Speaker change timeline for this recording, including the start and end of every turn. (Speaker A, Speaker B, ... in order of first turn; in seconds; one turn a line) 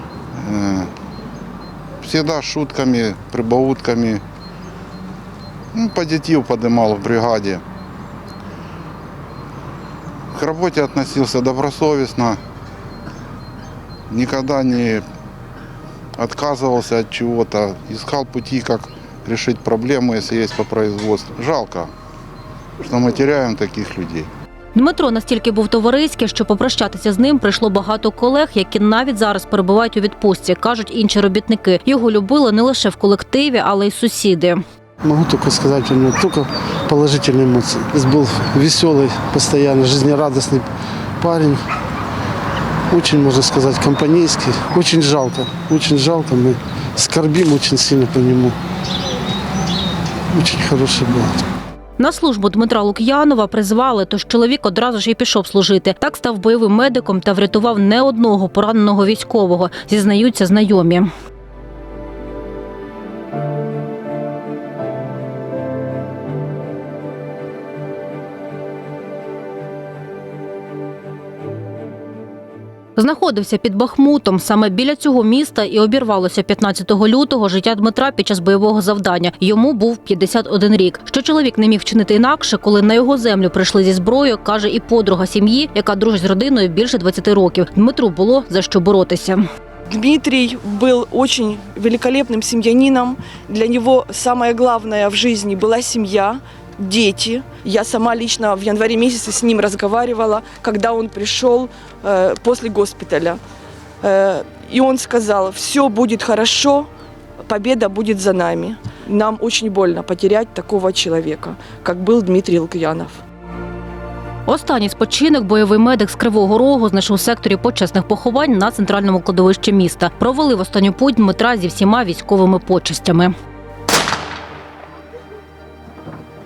Speaker A: 0.3-0.9
Speaker A: 2.0-4.2
Speaker A: 5.7-7.6
Speaker A: 10.3-12.4
Speaker A: 14.1-15.0
Speaker A: 16.2-21.9
Speaker A: 22.8-24.3
Speaker B: 24.8-34.6
Speaker C: 35.0-41.7
Speaker C: 42.9-48.6
Speaker C: 50.3-51.5
Speaker B: 52.0-61.1
Speaker B: 73.0-89.4
Speaker D: 89.9-103.4
Speaker D: 104.0-106.9
Speaker D: 107.5-113.2
Speaker B: 114.5-123.3